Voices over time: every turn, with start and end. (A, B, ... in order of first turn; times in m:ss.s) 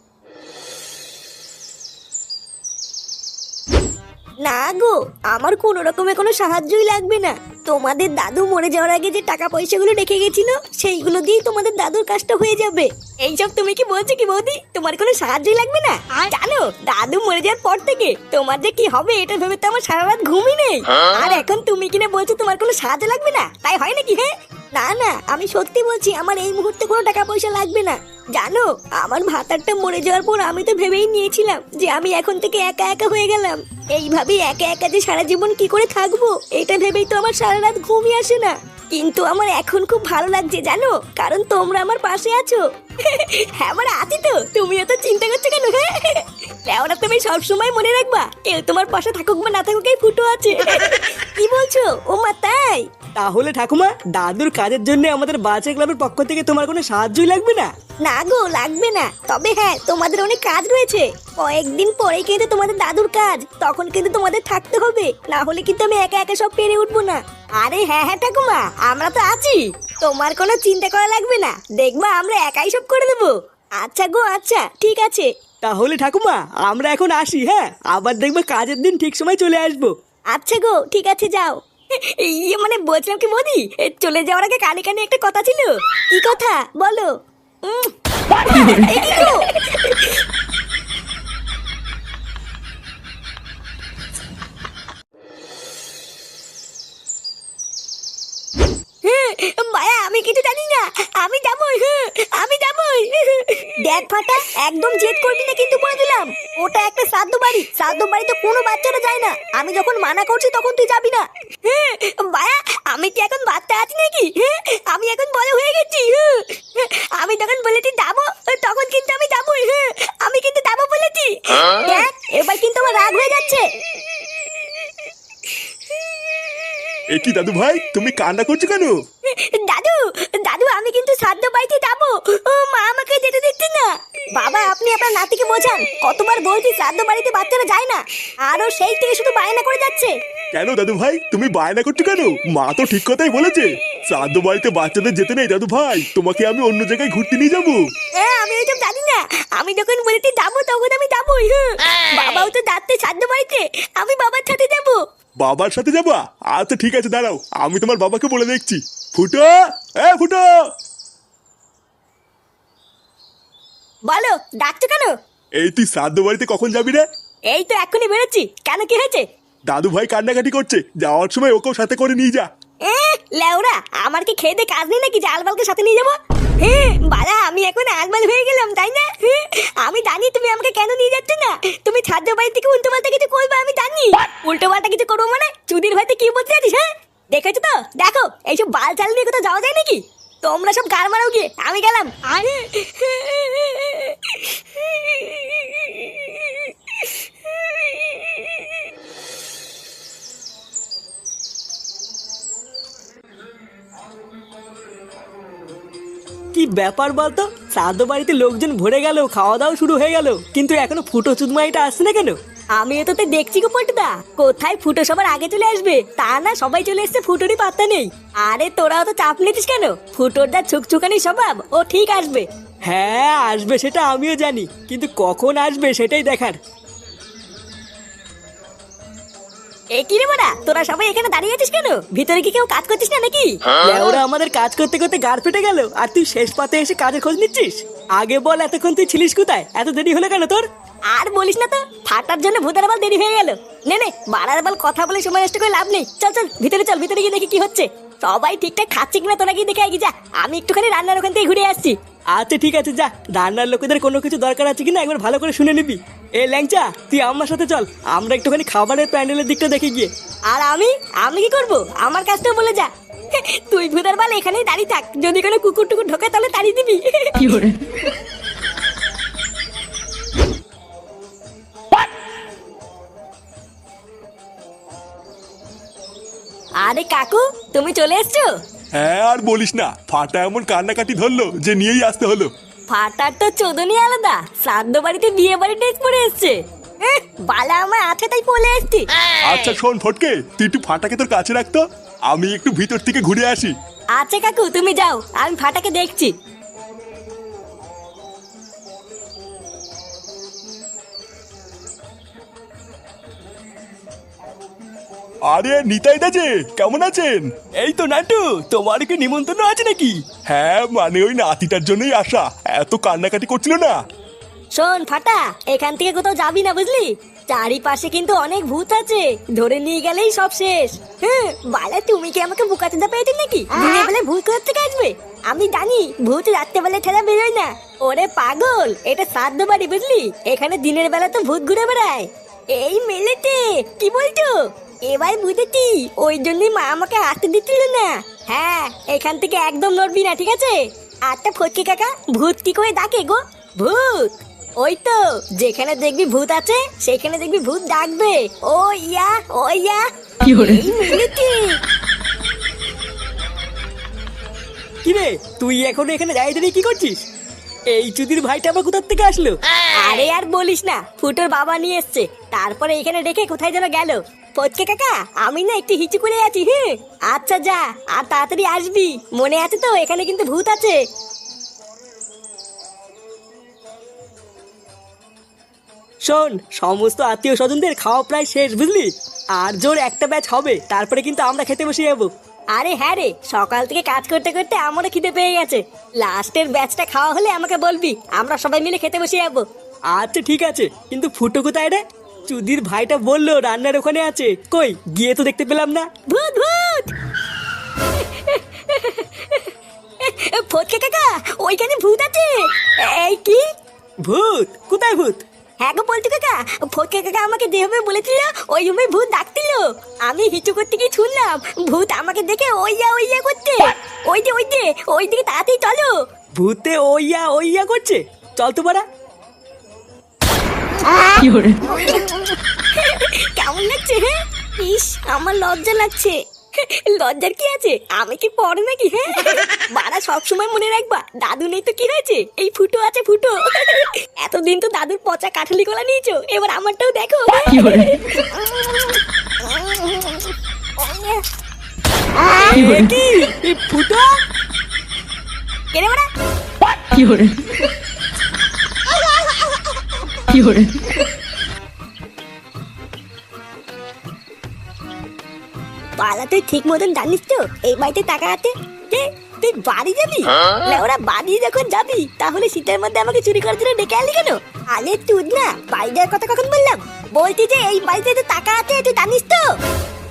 0:04.4-0:52.9 A
0:53.2-0:57.7 B
0:58.0-1:15.3 A
1:15.6-1:19.9 B
1:20.3-1:27.1 A
1:27.6-1:27.9 A
1:28.4-1:30.1 A
1:39.0-2:03.7 A
2:07.1-2:09.0 C
2:09.3-2:20.2 A
2:20.5-2:27.8 C
2:28.2-2:35.0 A
2:35.4-2:40.5 C
2:44.1-2:45.1 A
2:45.6-2:47.0 C
2:47.5-2:49.3 A
2:49.7-2:52.5 C
2:52.8-3:18.4 A
3:26.5-3:32.4 B
3:32.8-3:42.5 A
3:42.9-3:46.6 B
3:49.9-3:53.8 A
3:53.8-4:00.7 B
4:01.1-4:12.0 A
4:12.3-4:20.1 B
4:20.5-4:27.7 A
4:36.8-4:38.5 A
4:39.0-4:42.5 C
4:42.9-4:49.1 A
4:49.4-4:53.7 C
4:54.2-4:56.3 A
5:05.5-5:07.7 C
5:07.8-5:10.2 B
5:10.5-5:14.0 C
5:14.8-5:51.8 A
5:55.0-5:57.2 B
5:57.9-5:59.6 B
6:00.0-6:11.0 A
6:16.3-6:22.3 B
6:22.8-6:29.6 A
6:30.1-6:36.1 B
6:36.3-6:37.1 A
6:38.1-6:39.7 A
6:40.2-6:43.7 A
6:44.2-6:45.4 B
6:45.8-6:56.1 A
6:56.6-6:59.0 B
7:01.2-7:18.6 A
7:22.6-7:24.4 B
7:25.9-7:26.3 A
7:36.2-7:49.7 A